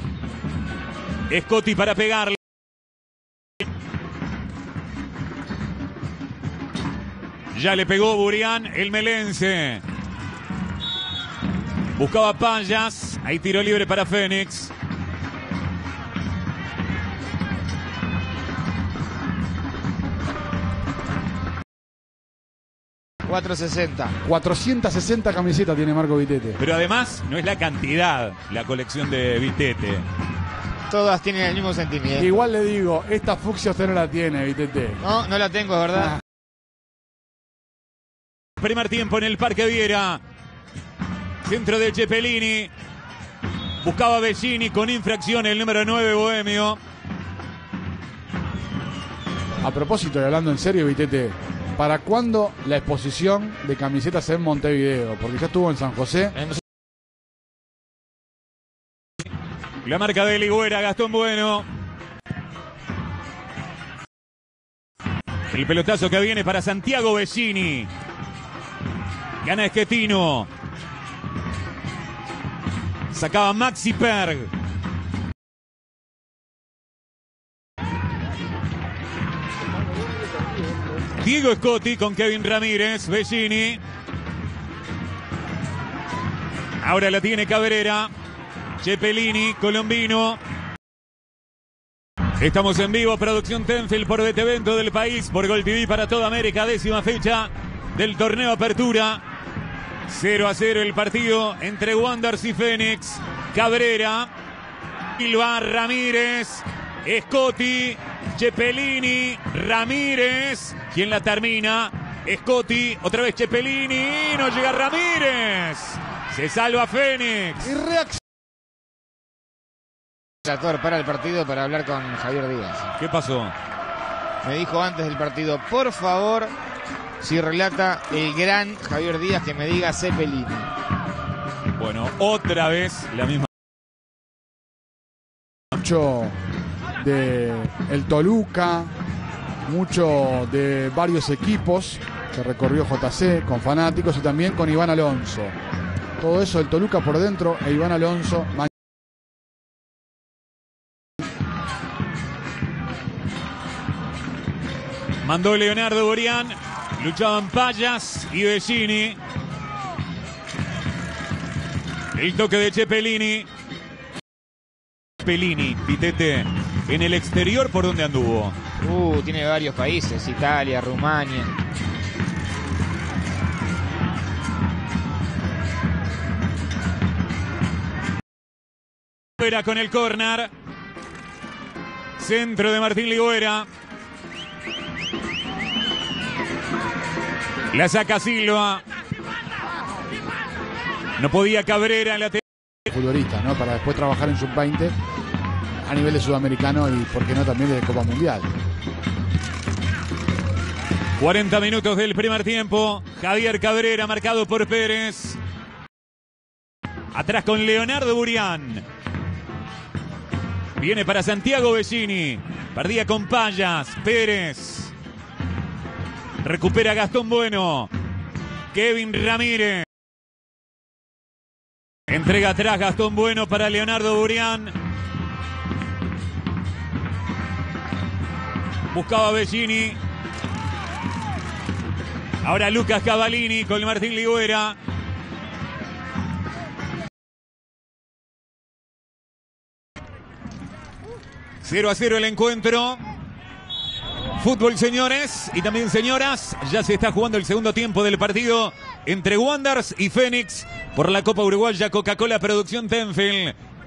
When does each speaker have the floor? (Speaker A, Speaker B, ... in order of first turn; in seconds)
Speaker A: 1.3-2.4, 7.5-9.8, 11.9-14.7, 26.6-30.0, 38.6-40.2, 41.4-42.7, 43.8-46.8, 59.8-61.6, 65.5-67.9, 69.4-70.5, 73.1-74.5, 81.2-83.8, 86.8-88.1, 88.8-90.4, 92.4-99.2, 100.1-104.3, 105.2-117.7, 123.0-123.5, 131.8-133.5, 155.2-159.2, 162.1-163.5, 165.2-168.5, 179.4-180.5, 182.2-183.7, 187.7-188.8, 191.2-192.4, 201.2-205.4, 207.1-208.8, 210.8-214.9, 216.4-217.9, 218.7-219.8, 222.1-224.7, 228.9-230.0, 232.4-234.8, 241.6-243.0, 244.4-253.5
Speaker B: 23.2-24.1, 30.9-32.3, 35.0-36.1, 120.4-122.8, 124.4-126.5, 127.2-130.7, 168.8-171.5
Speaker C: 24.2-26.6, 32.1-35.0, 49.6-56.4, 117.6-118.2, 135.7-136.3, 137.0-138.9, 139.6-145.6, 146.2-148.7, 192.9-194.9, 195.8-198.5